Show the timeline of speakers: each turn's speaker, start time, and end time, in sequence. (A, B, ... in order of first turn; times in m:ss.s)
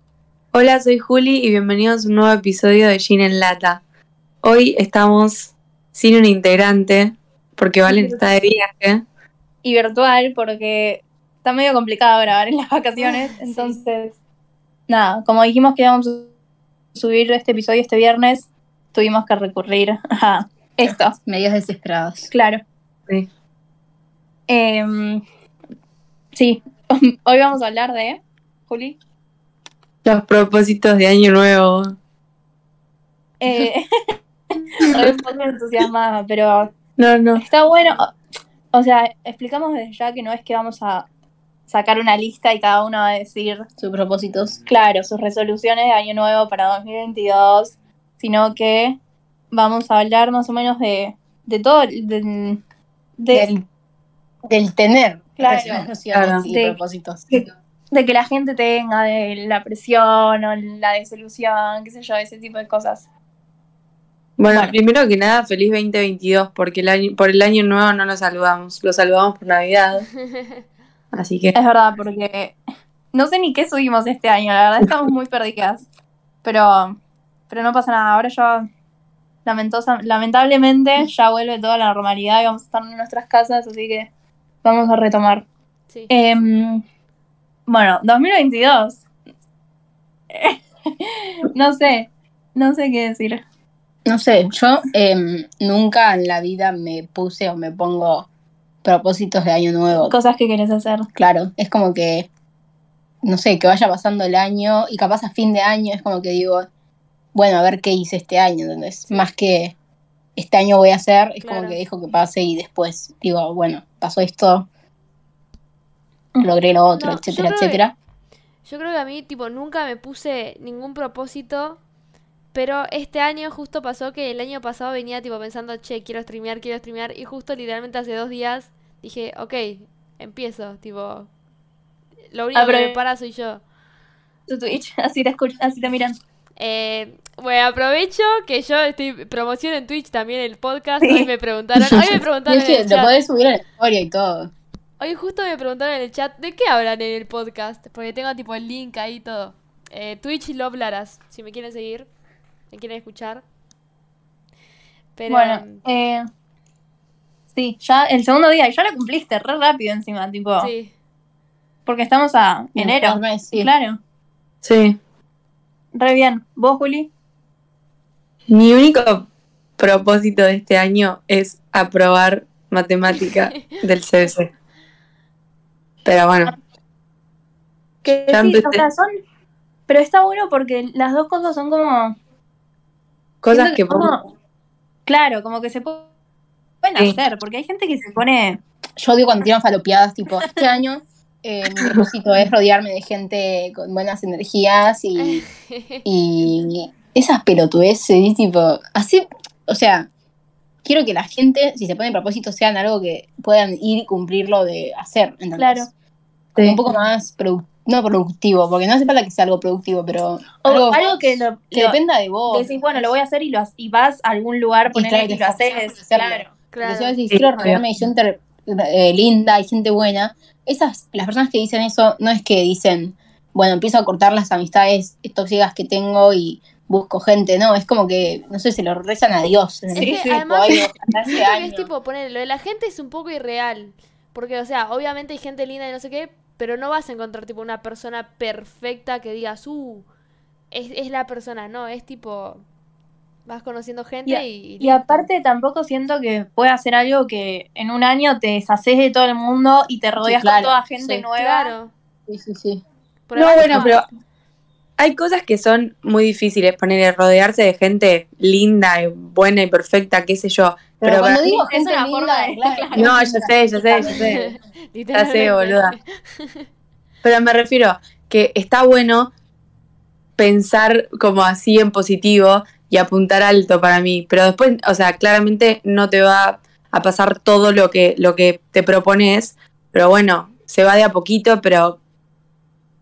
0:00.5-0:03.8 A
0:04.4-0:09.0 A
0:07.8-0:08.2 B
0:09.6-0:14.1 B
0:13.4-0:13.8 C
0:14.9-0:16.3 B
0:16.9-0:21.1 B
0:21.2-0:22.3 D
0:22.3-0:22.6 B
0:24.5-0:25.2 B
0:26.3-0:29.0 B
0:30.0-0:31.9 A
0:33.4-0:36.7 B
0:34.8-0:35.0 A
0:37.0-0:37.4 A
0:37.4-0:38.1 B
0:38.7-0:41.0 B
0:41.7-0:43.6 B
0:43.8-0:44.6 D
0:44.7-0:49.0 B
0:49.5-0:52.6 B
0:53.2-0:53.5 B
0:53.3-0:53.6 D
0:54.4-0:57.4 D
0:55.4-0:55.9 B
0:56.1-0:56.4 A
0:56.5-0:56.8 B
0:57.3-1:03.0 B
1:04.4-1:10.1 A
1:04.5-1:04.7 B
1:10.2-1:10.6 C
1:11.1-1:11.5 A
1:11.5-1:12.6 B
1:13.1-1:15.8 B
1:16.4-1:17.0 B
1:17.5-1:18.7 B
1:19.4-1:24.1 B
1:24.6-1:25.4 B
1:26.1-1:26.8 B
1:27.7-1:29.0 B
1:30.3-1:33.4 B
1:34.0-1:38.3 D
1:38.8-1:40.1 D
1:40.0-1:41.1 B
1:41.1-1:42.3 D
1:43.2-1:46.6 D
1:47.3-1:49.7 D
1:50.4-1:54.7 D
1:51.4-1:51.7 C
1:56.4-1:57.9 D
1:56.9-1:57.8 C
1:58.6-2:01.8 C
2:02.5-2:11.3 C
2:12.3-2:13.6 C
2:12.5-2:12.9 B
2:14.5-2:16.2 B
2:16.6-2:23.1 C
2:21.0-2:21.3 B
2:22.0-2:24.5 D
2:25.0-2:32.1 C
2:32.7-2:33.4 C
2:35.2-2:35.8 C
2:35.3-2:36.3 B
2:37.5-2:40.7 B
2:40.6-2:40.9 C
2:41.8-2:44.0 B
2:42.8-2:43.7 D
2:44.6-2:45.0 A
2:45.9-2:47.1 B
2:48.5-2:49.2 A
2:49.8-2:54.5 A
2:56.0-2:56.5 A
2:58.0-2:59.1 B
2:58.3-2:58.8 A
2:59.9-3:02.1 B
3:03.4-3:04.2 A
3:03.5-3:04.2 B
3:05.1-3:06.1 B
3:06.8-3:08.6 B
3:09.0-3:15.4 D
3:15.2-3:16.0 C
3:16.0-3:20.1 D
3:20.8-3:25.9 D
3:25.6-3:25.9 B
3:26.5-3:26.8 A
3:26.6-3:32.7 D
3:30.6-3:32.0 B
3:32.5-3:36.5 B
3:34.9-3:51.9 D
3:36.7-3:37.2 C
3:37.3-3:37.8 A
3:49.9-4:00.0 C
3:50.0-3:50.8 B
4:00.7-4:02.6 C
4:03.4-4:05.3 C
4:04.2-4:11.7 B
4:10.2-4:11.2 D
4:11.4-4:11.9 C
4:12.3-4:12.8 D
4:13.3-4:14.0 C
4:13.3-4:14.0 A
4:13.6-4:14.0 B
4:15.0-4:21.4 A
4:21.0-4:24.2 D
4:21.4-4:23.2 B
4:22.9-4:24.5 A
4:24.0-4:26.7 C
4:25.1-4:26.0 A
4:27.2-4:29.3 A
4:30.4-4:42.0 A